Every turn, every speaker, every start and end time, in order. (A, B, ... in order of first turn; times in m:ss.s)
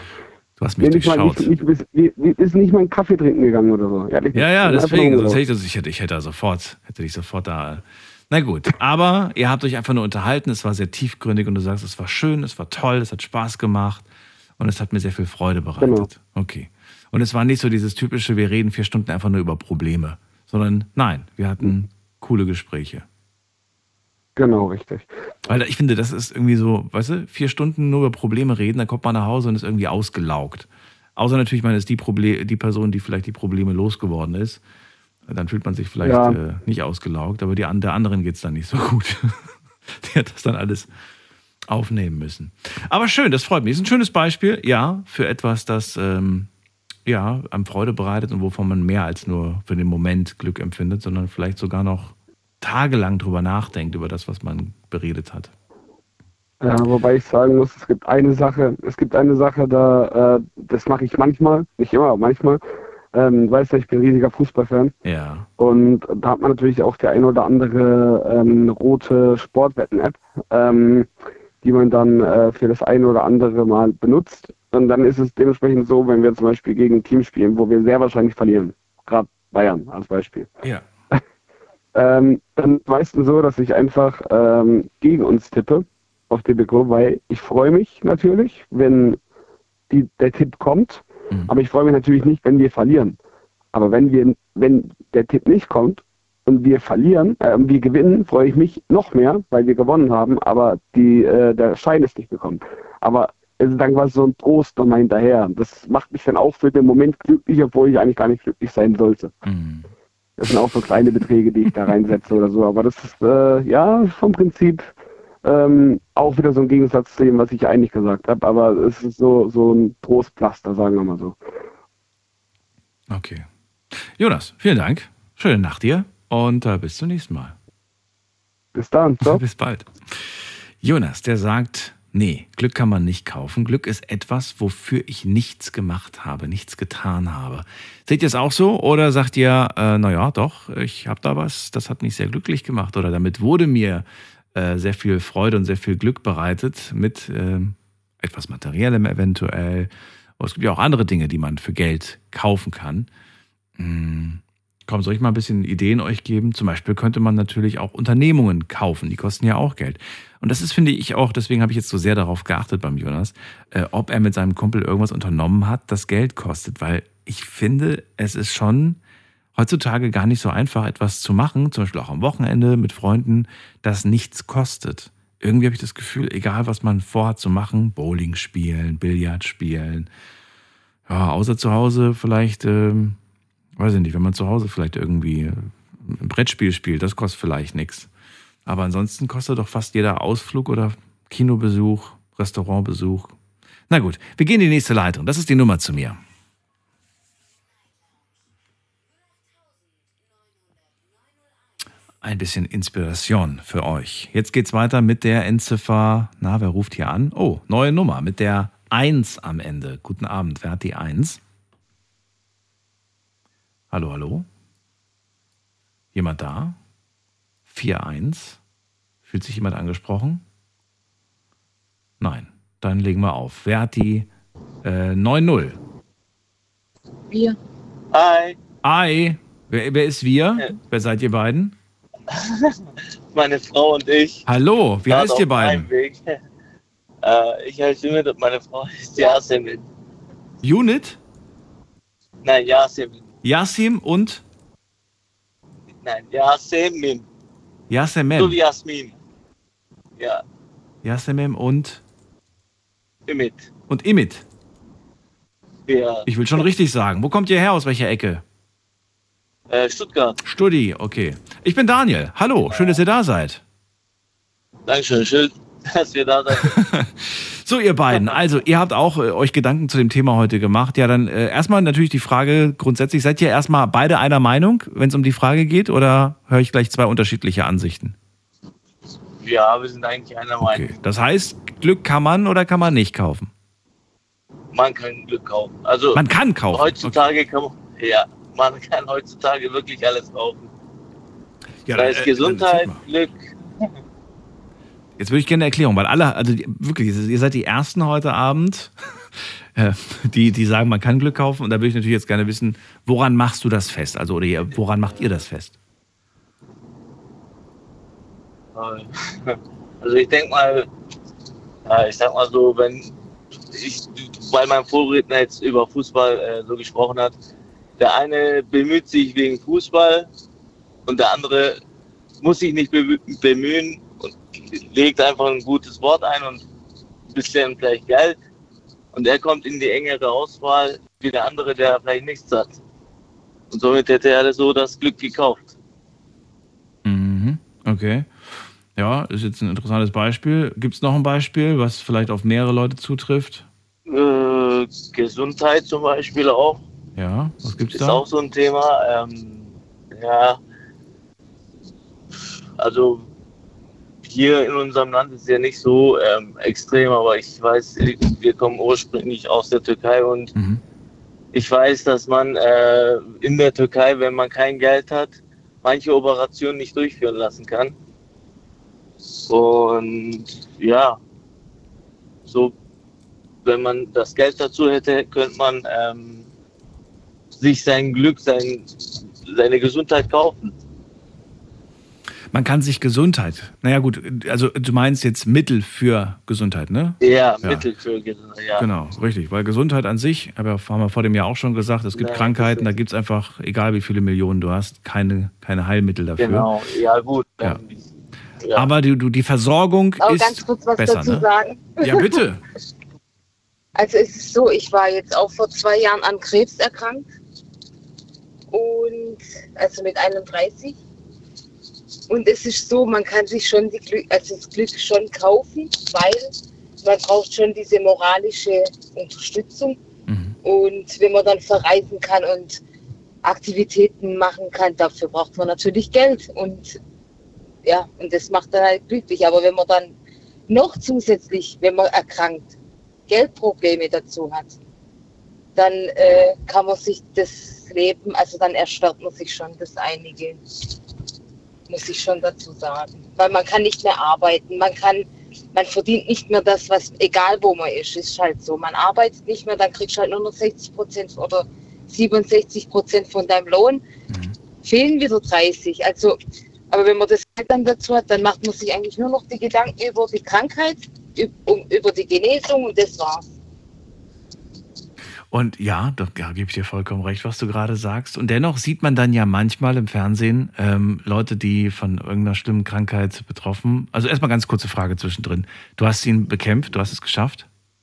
0:00.6-0:01.5 A
0:00.8-0:05.4 B
0:04.3-0:14.1 A
0:14.6-0:23.1 A
0:15.8-0:16.1 B
0:24.4-0:25.1 B
0:25.5-0:34.6 A
0:35.3-0:40.9 A
0:36.0-0:36.4 B
0:41.7-0:46.5 A
0:47.1-0:55.5 A
0:56.6-1:02.6 B
1:03.1-1:05.0 B
1:05.0-1:05.5 A
1:05.6-1:11.1 B
1:11.6-1:20.5 B
1:22.0-1:29.2 B
1:29.9-1:33.2 B
1:33.7-1:49.4 B
1:49.4-1:49.9 A
1:50.4-1:54.9 B
1:55.4-2:01.4 B
2:03.1-2:07.6 A
2:08.7-2:09.4 B
2:09.2-2:33.1 A
2:33.8-2:49.0 A
2:49.6-3:00.1 A
3:01.1-3:03.2 A
3:03.8-3:08.1 A
3:08.7-3:13.4 A
3:13.9-3:16.2 A
3:22.2-3:31.4 A
3:33.9-3:34.5 A
3:36.1-3:36.8 A
3:37.7-3:38.6 A
3:39.3-3:40.4 A
3:42.2-3:44.3 A
3:44.8-3:45.8 A
3:47.3-3:47.6 C
3:48.1-3:48.6 D
3:48.8-3:51.8 A
3:53.3-3:54.5 D
3:54.5-3:55.9 A
3:55.1-3:56.4 D
3:57.2-3:59.9 D
4:00.6-4:01.2 A
4:02.4-4:03.3 D
4:03.4-4:04.4 A
4:05.9-4:07.3 D
4:07.9-4:08.6 A
4:08.4-4:09.2 D
4:10.2-4:10.4 D
4:11.0-4:12.0 A
4:13.3-4:13.7 D
4:13.9-4:14.4 A
4:15.9-4:16.3 D
4:16.3-4:18.4 A
4:19.7-4:20.4 D
4:20.4-4:23.6 A
4:22.7-4:23.0 D
4:24.9-4:26.8 D
4:26.6-4:38.2 A
4:39.4-4:41.0 D
4:40.6-4:43.5 A
4:44.7-4:50.7 D
4:46.1-4:47.2 A
4:51.8-4:53.0 A
4:51.9-4:53.6 D
4:55.2-4:58.9 A
4:59.8-5:05.8 A
5:08.8-5:10.9 D
5:11.9-5:13.2 D
5:13.7-5:17.4 D
5:18.0-5:20.3 D
5:21.1-5:21.8 D
5:22.4-5:26.6 D
5:27.3-5:28.4 D
5:29.1-5:32.8 D
5:33.7-5:35.7 D
5:37.0-5:43.7 A
5:44.1-5:46.8 D
5:47.2-5:48.2 A
5:47.9-5:50.6 D
5:52.8-5:53.3 D
5:54.2-6:00.5 D
6:00.6-6:00.8 A
6:01.5-6:08.0 D
6:09.5-6:11.2 D
6:12.5-6:12.7 D
6:13.6-6:16.5 D
6:17.6-6:20.8 D
6:22.5-6:27.9 A
6:27.2-6:28.9 D
6:28.8-6:36.7 A
6:32.1-6:32.9 D
6:36.4-6:38.1 D
6:38.6-6:38.9 D
6:38.8-6:41.5 A
6:40.2-6:42.4 C
6:42.0-6:42.6 A
6:44.0-6:47.3 C
6:48.7-6:51.0 C
6:52.3-7:00.0 C
7:00.3-7:00.6 A
7:00.6-7:02.8 C
7:03.4-7:07.0 C
7:07.8-7:10.1 C
7:10.7-7:12.7 C
7:13.3-7:14.8 C
7:15.8-7:20.8 C
7:21.9-7:34.0 C
7:34.3-7:34.6 A
7:34.8-7:36.4 C
7:36.9-7:43.5 C
7:45.5-7:57.7 A